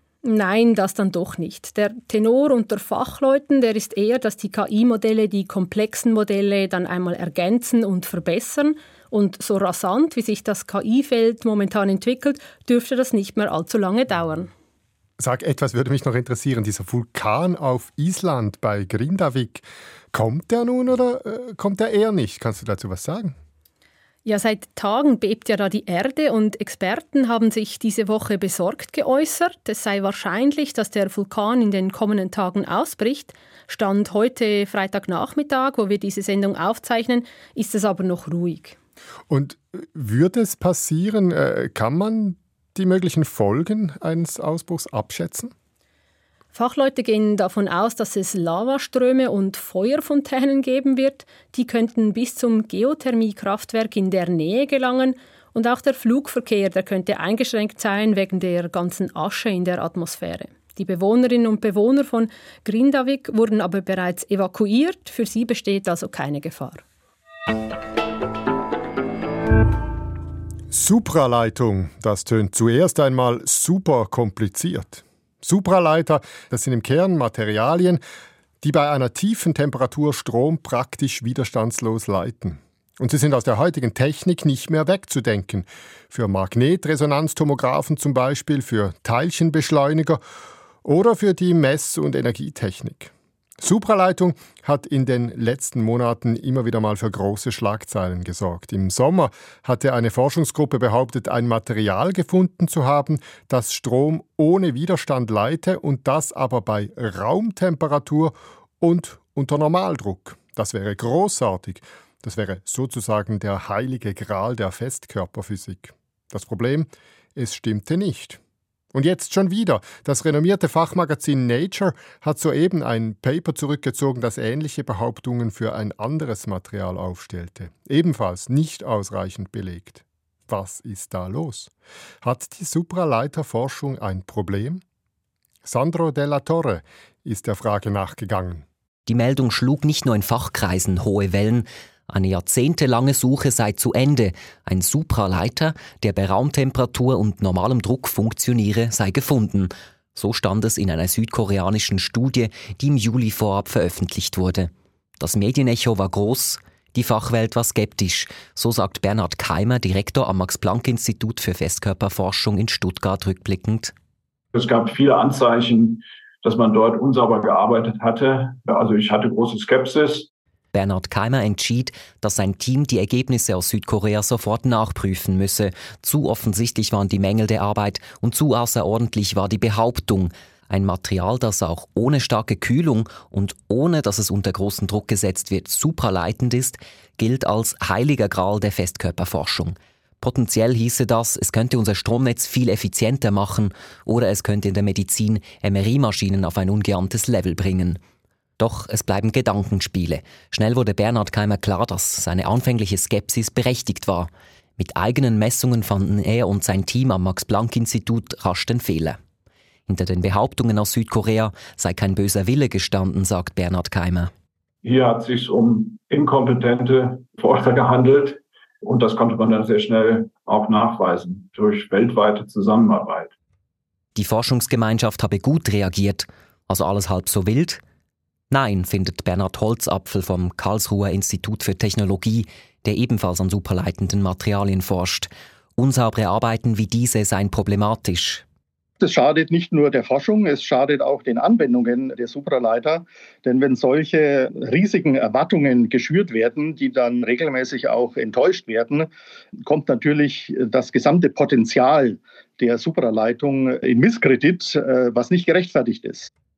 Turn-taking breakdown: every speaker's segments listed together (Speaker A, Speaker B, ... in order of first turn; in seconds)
Speaker A: 0.2-14.5, 24.2-38.8, 46.5-66.8
Speaker B: 15.2-23.4, 39.3-45.5, 70.7-78.0, 78.6-90.2, 90.8-118.4, 118.9-134.8, 135.6-138.7
Speaker C: 139.1-163.9, 170.7-198.0, 198.6-209.2, 209.9-214.3, 224.2-227.8, 228.5-238.4
Speaker D: 164.5-170.3, 214.8-223.3
Speaker E: 239.0-249.1, 249.7-256.3